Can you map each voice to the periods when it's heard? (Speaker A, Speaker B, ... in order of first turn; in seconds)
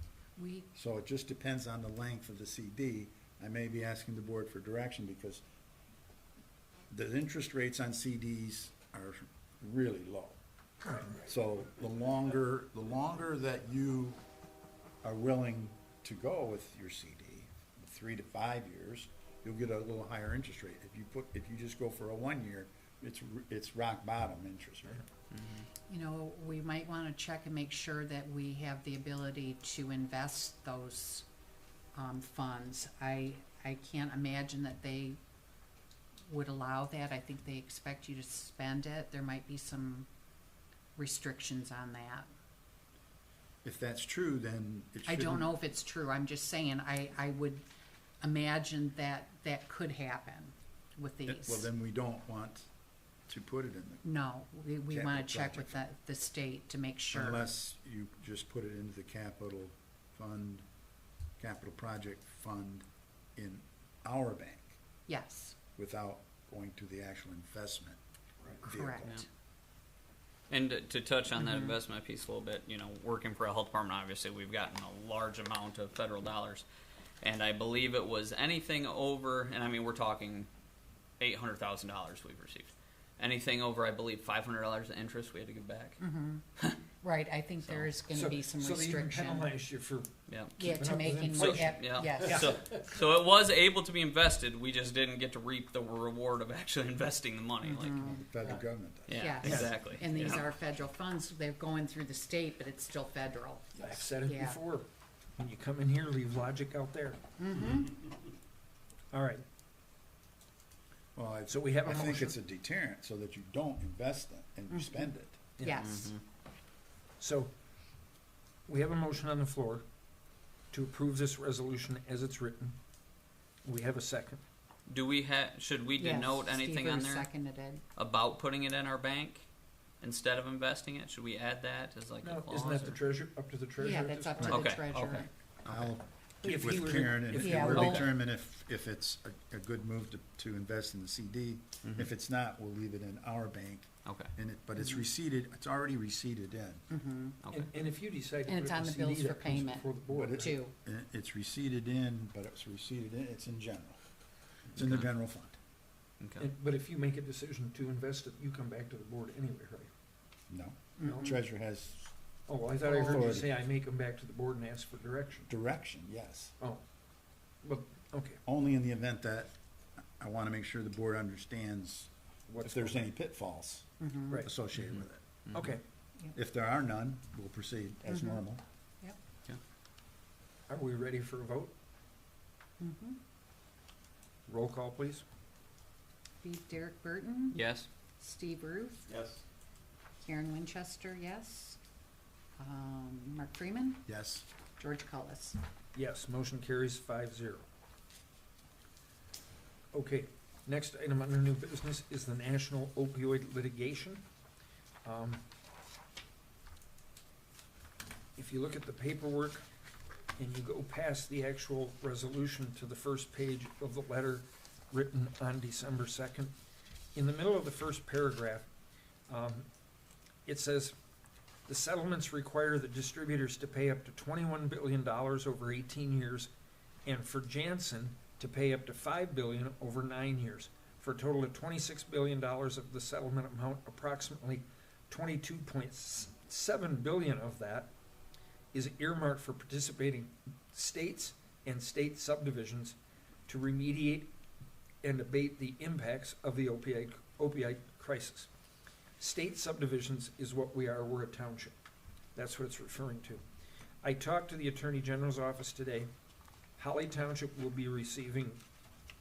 Speaker A: 0.4-0.7, 25.9-31.3, 31.9-35.2, 36.3-40.1, 41.0-42.3, 45.1-47.6, 48.2-51.7, 54.0-57.5, 65.1-65.6, 68.6-69.3, 71.4-71.7, 86.0-86.4, 87.0-89.5, 90.6-92.6, 97.6-98.3, 99.2-104.6, 107.4-108.0, 114.7-116.2, 126.0-127.8, 133.8-135.3, 136.4-138.1, 144.8-145.1, 146.9-147.4, 148.5-150.8, 161.0-161.4, 162.8-163.4, 174.0-174.5, 178.1-178.4, 182.8-183.2, 186.4-187.6, 188.2-189.0, 190.2-191.8, 192.6-194.0, 194.8-195.6
Speaker B: 0.8-5.4, 6.9-10.4, 11.2-14.2, 15.0-25.1, 43.6-45.5, 51.3-52.7, 53.3-54.0, 54.9-55.8, 57.1-60.6, 61.4-64.8, 65.8-68.0, 68.6-69.2, 98.0-99.3, 111.2-115.5, 135.7-146.8, 150.1-154.0, 154.7-155.6, 160.5-162.1, 163.0-163.5, 165.5-166.5, 168.5-169.6, 170.2-172.1, 172.6-175.4, 176.3-178.6, 189.1-189.4, 194.1-194.5
Speaker C: 25.3-25.7, 70.5-76.6, 77.2-80.5, 81.2-86.0, 87.7-87.9, 90.3-90.6, 91.7-98.0, 99.1-100.5, 115.8-116.2, 124.9-127.3, 128.0-129.4, 130.0-133.0, 134.5-135.9, 141.8-142.1, 144.1-144.3, 147.4-147.7, 154.8-155.1, 156.2-156.5, 174.8-175.8, 187.5-187.9
Speaker D: 88.1-92.5, 99.4-99.8, 103.8-107.2, 109.1-109.4, 111.5-112.4, 115.6-115.9, 117.2-117.5, 118.7-119.8, 120.7-122.8, 123.7-124.4, 132.2-134.6, 136.4-138.1, 147.5-150.6, 156.4-159.9, 162.5-165.5, 167.6-168.4, 172.5-173.0, 175.6-175.8, 180.7-181.7, 184.5-185.2, 195.9-197.7, 199.9-204.2, 205.1-205.4, 208.4-209.6, 210.4-216.5, 217.2-218.7, 219.3-219.7, 220.5-221.0, 221.7-226.5, 227.1-237.9, 238.7-244.3, 245.0-248.5, 249.2-251.8, 252.4-253.4, 254.0-256.1, 256.8-258.6